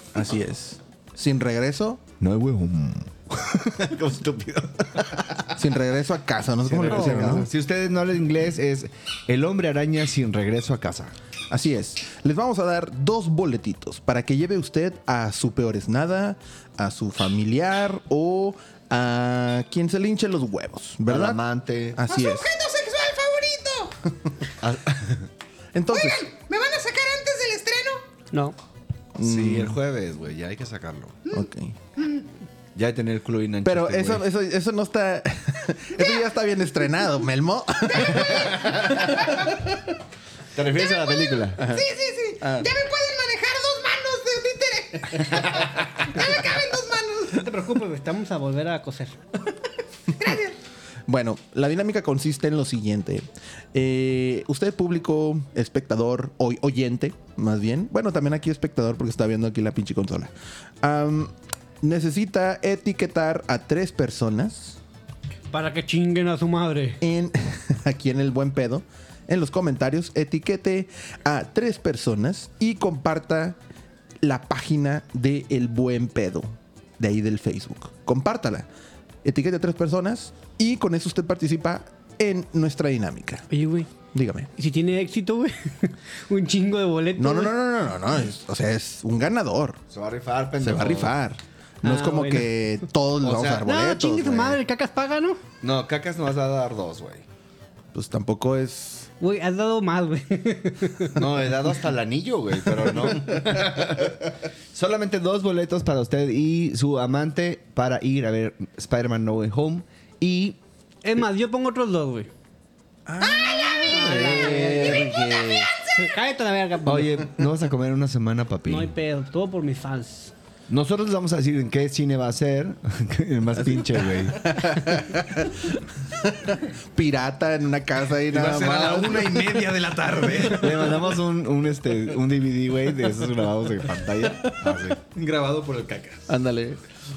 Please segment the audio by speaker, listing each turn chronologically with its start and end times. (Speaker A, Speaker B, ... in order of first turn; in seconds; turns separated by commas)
Speaker A: 0.1-2.0, Speaker B: 2.2-5.5, Speaker A: 5.5-7.5, Speaker B: 6.6-11.1, Speaker A: 11.5-21.4, Speaker B: 21.1-22.0, Speaker A: 21.9-22.5, Speaker C: 22.1-23.9, Speaker B: 24.6-25.3, Speaker A: 25.7-26.2, Speaker C: 25.9-28.0, Speaker A: 29.1-29.8, Speaker B: 29.2-31.2, Speaker A: 31.3-31.8, Speaker C: 32.0-32.2, Speaker B: 32.7-34.2, Speaker A: 33.6-39.5, Speaker C: 37.9-39.5, Speaker B: 40.5-41.6, Speaker C: 40.7-47.4, Speaker A: 41.6-41.9, Speaker A: 42.4-42.7, Speaker D: 47.3-49.2, Speaker C: 50.1-50.6, Speaker A: 51.1-64.8, Speaker D: 65.5-67.0, Speaker A: 67.0-73.6, Speaker A: 74.2-78.7, Speaker A: 79.2-83.4, Speaker D: 83.5-83.9, Speaker A: 84.1-84.5, Speaker D: 84.5-87.5, Speaker A: 87.2-89.8, Speaker B: 89.9-91.2, Speaker A: 90.6-94.6, Speaker D: 91.8-92.5, Speaker B: 93.2-93.7, Speaker D: 93.6-95.4, Speaker B: 95.6-97.2, Speaker A: 97.9-99.1, Speaker D: 99.2-101.2, Speaker B: 101.1-110.6, Speaker D: 111.0-112.3, Speaker A: 113.1-115.7, Speaker C: 113.2-116.0, Speaker D: 113.8-115.1, Speaker D: 116.0-117.3, Speaker B: 116.8-118.9, Speaker D: 118.7-120.3, Speaker B: 120.7-124.4, Speaker A: 123.7-129.6, Speaker E: 128.3-131.0, Speaker B: 130.5-135.0, Speaker E: 135.0-136.3, Speaker A: 136.3-136.8